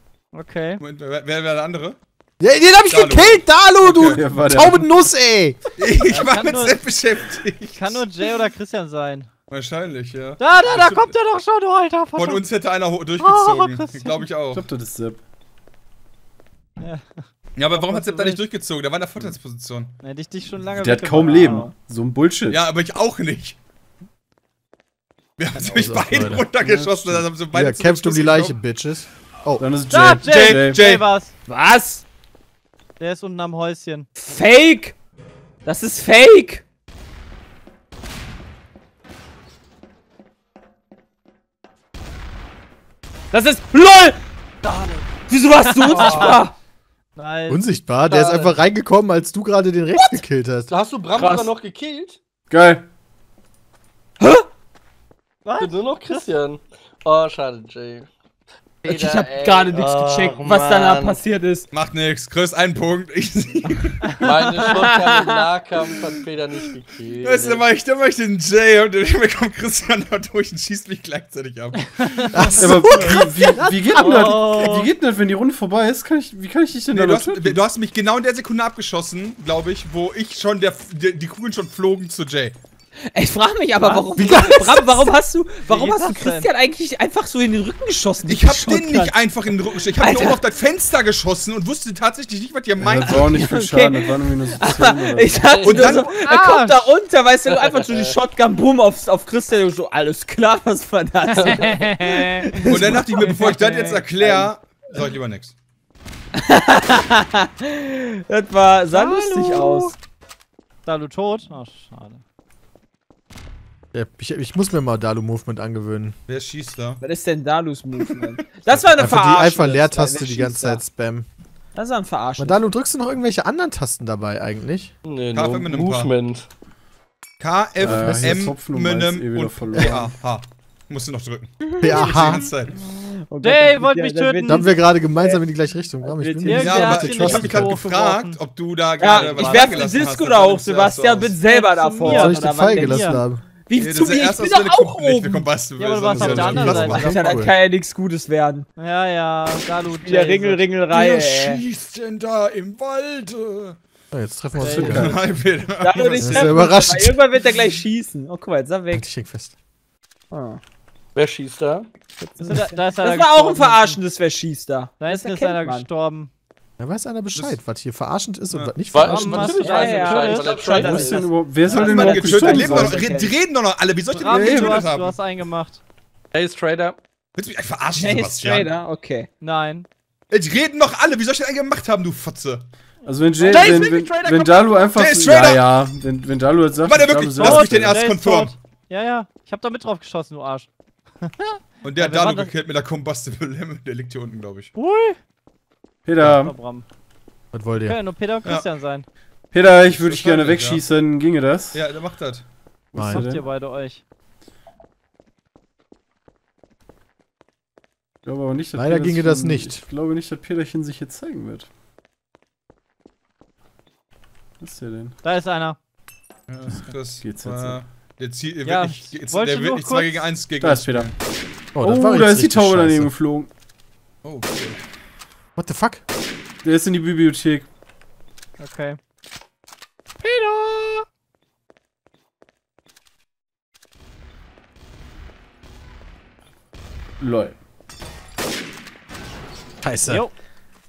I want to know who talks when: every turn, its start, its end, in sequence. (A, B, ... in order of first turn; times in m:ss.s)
0:00.3-0:00.8 A
0:00.8-0:02.0 B
0:02.4-0:05.6 C
0:02.9-0:04.2 B
0:04.0-0:05.0 D
0:05.8-0:08.1 B
0:06.1-0:06.8 A
0:07.7-0:09.3 A
0:09.5-0:11.1 B
0:10.4-0:12.4 A
0:12.1-0:14.6 B
0:13.2-0:14.3 A
0:14.5-0:15.2 D
0:16.8-0:18.4 A
0:17.6-0:19.9 B
0:20.0-0:21.7 A
0:20.7-0:22.6 D
0:22.5-0:23.6 B
0:25.4-0:28.6 B
0:25.6-0:26.5 C
0:26.6-0:27.3 D
0:27.4-0:29.6 C
0:29.6-0:30.8 D
0:29.9-0:31.3 A
0:30.2-0:31.1 B
0:31.5-0:32.0 E
0:33.0-0:34.1 A
0:34.2-0:35.0 E
0:35.6-0:36.6 E
0:43.3-0:44.2 E
0:44.6-0:45.0 F
0:45.3-0:46.5 E
0:45.6-0:46.4 A
0:45.9-0:46.4 F
0:47.2-0:47.6 A
0:47.5-0:50.7 C
0:48.0-0:48.5 F
0:50.7-0:52.2 F
0:51.1-0:51.5 E
0:52.5-0:52.8 D
0:54.2-0:54.5 E
0:55.4-0:56.2 A
0:55.6-0:58.1 F
0:58.8-1:01.2 F
0:58.8-1:01.7 E
1:01.7-1:04.3 B
1:04.2-1:07.6 F
1:04.5-1:05.4 E
1:07.2-1:12.7 B
1:12.0-1:13.2 A
1:12.3-1:14.5 C
1:12.6-1:17.6 D
1:14.0-1:14.9 A
1:16.9-1:22.5 B
1:23.1-1:29.2 E
1:23.8-1:24.1 A
1:24.2-1:25.1 C
1:25.5-1:26.5 A
1:28.2-1:33.3 B
1:30.0-1:30.4 E
1:32.8-1:35.4 D
1:33.1-1:44.4 E
1:35.5-1:36.0 F
1:35.6-1:36.2 B
1:36.2-1:36.9 A
1:37.5-1:38.1 F
1:41.5-1:42.3 F
1:42.7-1:45.5 B
1:46.5-1:49.9 E
1:48.9-1:49.9 A
1:50.8-1:52.2 A
1:53.9-1:56.1 C
1:56.3-1:57.0 B
1:57.0-2:00.8 E
1:58.9-2:01.3 C
2:01.7-2:02.6 E
2:02.4-2:04.9 C
2:05.0-2:06.5 F
2:05.3-2:06.1 B
2:07.4-2:12.7 B
2:07.8-2:10.1 D
2:07.8-2:08.4 C
2:11.8-2:12.1 E
2:11.8-2:12.5 C
2:12.0-2:12.4 A
2:12.7-2:15.4 E
2:13.4-2:14.6 A
2:14.4-2:17.7 C
2:16.0-2:17.6 E
2:16.5-2:18.4 A
2:16.5-2:21.4 B
2:19.0-2:25.4 E
2:19.0-2:19.9 A
2:21.4-2:23.2 A
2:22.0-2:23.4 C
2:23.7-2:27.2 B
2:25.8-2:27.2 A
2:26.1-2:27.5 C
2:26.9-2:28.7 E
2:28.8-2:30.6 A
2:29.8-2:31.6 E
2:30.9-2:33.8 B
2:34.1-2:35.1 C
2:34.6-2:34.9 A
2:34.6-2:35.2 D
2:34.9-2:36.6 B
2:35.8-2:39.0 E
2:36.2-2:37.2 C
2:38.9-2:39.5 C
2:40.3-2:40.6 E
2:41.1-2:41.9 F
2:42.2-2:45.9 E
2:42.4-2:44.0 A
2:45.0-2:46.3 A
2:46.8-2:49.7 C
2:48.9-2:51.3 F
2:49.1-2:51.0 A
2:49.6-2:53.4 E
2:50.6-2:53.2 D
2:51.7-2:55.2 B
2:54.1-2:55.8 A
2:54.3-2:54.7 D
2:56.3-2:57.0 F
2:57.4-2:58.7 B
2:57.9-2:59.3 E
2:59.4-2:59.8 A
3:00.3-3:02.6 B
3:03.0-3:08.0 D
3:03.4-3:05.0 F
3:03.4-3:03.8 A
3:04.9-3:05.7 B
3:06.8-3:08.5 B
3:07.4-3:10.7 A
3:11.2-3:12.5 A
3:11.8-3:14.7 B
3:14.7-3:15.2 A
3:16.0-3:16.6 D
3:16.4-3:16.8 A
3:17.5-3:18.0 C
3:17.8-3:19.0 A
3:19.5-3:21.8 D
3:19.9-3:20.8 B
3:21.7-3:22.4 B
3:22.9-3:23.4 D
3:22.9-3:23.3 C
3:23.0-3:24.0 A
3:28.2-3:31.7 D
3:28.8-3:29.8 C
3:34.6-3:35.2 D
3:35.2-3:35.8 A
3:36.5-3:41.1 B
3:37.0-3:37.8 D
3:38.6-3:40.3 A
3:40.6-3:41.1 D
3:41.8-3:43.1 C
3:41.8-3:43.5 D
3:44.2-3:44.8 B
3:45.6-3:46.0 C
3:46.6-3:47.7 D
3:48.6-3:49.0 A
3:50.2-3:51.0 A
3:57.2-3:57.5 D
3:59.8-4:00.2 C